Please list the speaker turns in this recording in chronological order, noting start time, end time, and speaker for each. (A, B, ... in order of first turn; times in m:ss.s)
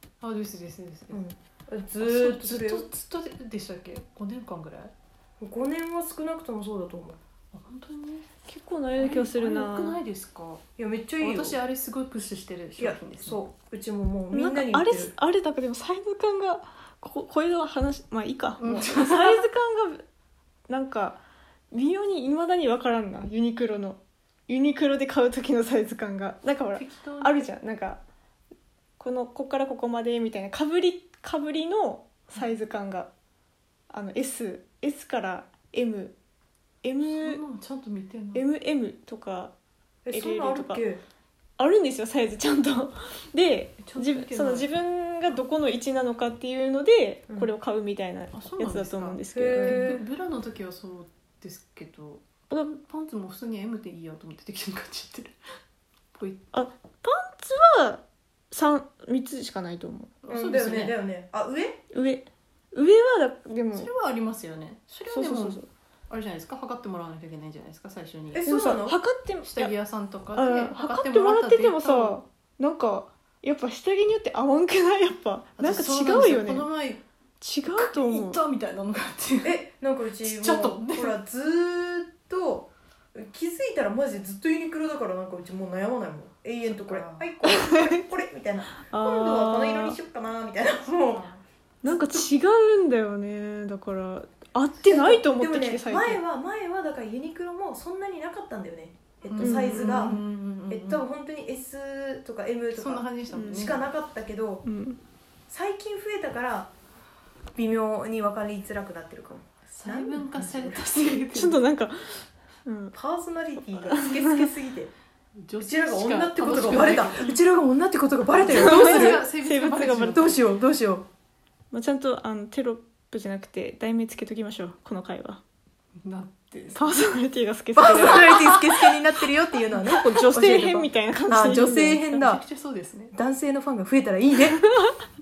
0:00.2-0:01.2 A
0:01.1-0:02.9 B
0:02.0-0:04.9 A
0:05.4-0:07.2 B
0:07.5-0:08.3 A
0:08.5-0:10.0 C
0:09.0-0:10.6 A
0:10.8-0:11.6 B
0:11.2-0:13.4 A
0:12.8-0:15.1 B
0:14.3-0:20.0 C
0:18.6-0:19.4 A
0:20.7-0:28.0 C
0:26.7-0:27.5 A
0:29.0-0:33.1 C
0:33.9-0:36.2 C
0:36.8-0:37.4 C
0:37.0-0:38.5 A
0:38.3-0:39.6 C
0:40.1-0:41.0 B
0:40.1-0:40.8 C
0:41.6-0:50.0 C
0:43.8-0:44.7 A
0:48.3-0:55.4 A
0:49.3-0:50.0 B
0:52.5-0:52.8 C
0:56.2-0:56.5 A
0:56.5-1:00.1 C
1:00.2-1:01.0 A
1:00.3-1:01.8 B
1:01.9-1:03.9 C
1:03.7-1:08.5 A
1:05.1-1:05.7 C
1:08.3-1:09.0 B
1:08.4-1:09.7 C
1:09.4-1:12.2 A
1:10.3-1:16.7 C
1:15.6-1:17.0 A
1:17.4-1:18.4 C
1:17.7-1:19.6 A
1:19.4-1:31.3 B
1:20.2-1:21.2 A
1:26.7-1:27.3 A
1:27.4-1:28.0 C
1:28.7-1:30.0 C
1:31.1-1:31.4 A
1:31.8-1:36.2 C
1:31.8-1:32.3 B
1:34.9-1:44.6 B
1:39.3-1:41.1 A
1:39.4-1:40.2 C
1:42.7-1:43.9 A
1:43.3-1:43.8 C
1:44.6-1:45.0 C
1:45.5-1:46.7 B
1:47.6-1:50.8 B
1:49.7-1:51.6 A
1:51.3-1:53.0 C
1:52.9-1:54.9 B
1:53.6-1:54.5 C
1:55.4-1:57.4 A
1:55.6-1:59.3 B
1:58.4-2:00.4 A
1:58.4-2:00.3 C
2:00.1-2:01.1 B
2:01.7-2:05.4 C
2:06.0-2:06.9 A
2:06.7-2:08.7 C
2:07.8-2:12.4 B
2:08.3-2:08.7 A
2:09.8-2:12.2 C
2:12.2-2:13.1 A
2:13.1-2:14.6 B
2:14.6-2:15.0 C